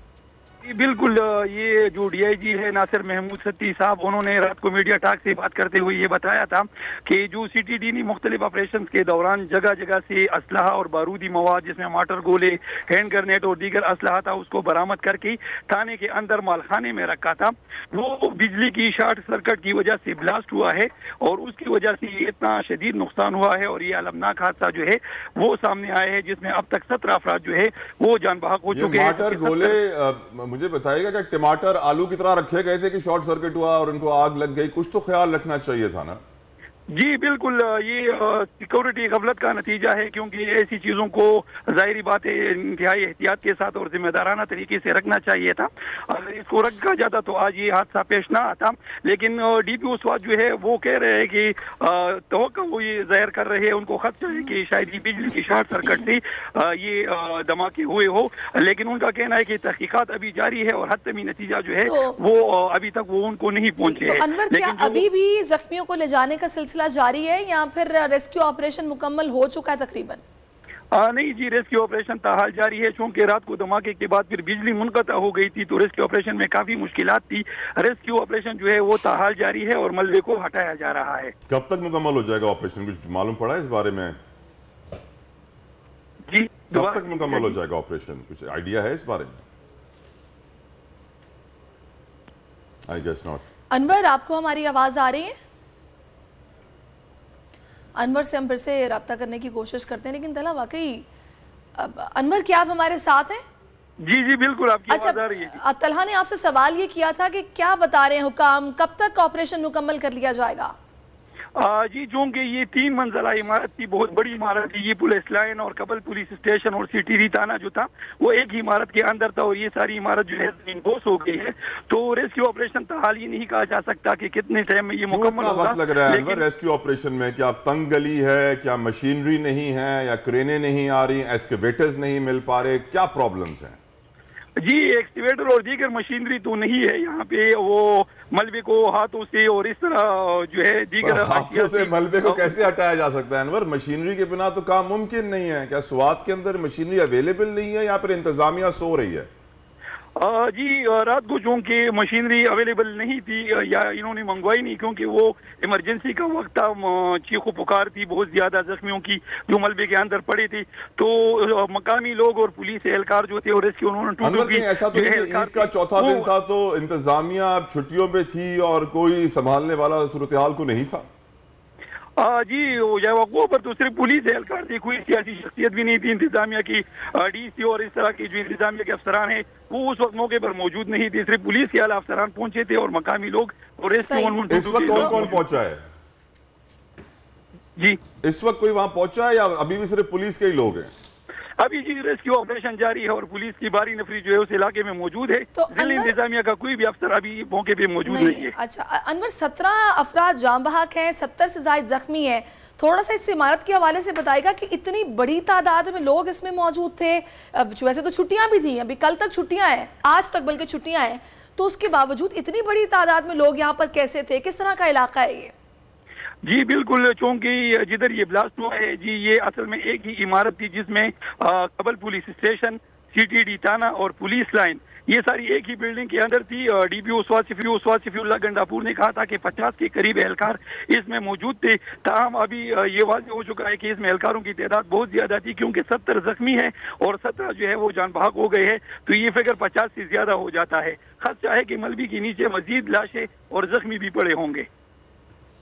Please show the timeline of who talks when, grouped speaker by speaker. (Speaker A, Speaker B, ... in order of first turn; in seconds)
Speaker A: 0.6-29.8, 36.9-65.1, 70.9-81.3, 86.3-87.5, 104.0-105.6, 111.6-126.4, 134.6-142.6, 150.2-166.3, 172.2-185.4, 191.6-198.5, 216.4-244.7
Speaker B: 28.7-36.2, 81.5-84.2, 86.7-89.4, 92.9-93.4, 125.1-133.8, 141.0-149.3, 164.2-171.1, 184.5-185.8, 188.2-190.9
Speaker C: 61.9-62.2, 63.8-70.2, 93.7-95.4, 98.0-101.1, 101.8-103.4, 104.9-110.8, 183.9-185.2, 195.6-196.2, 198.1-215.5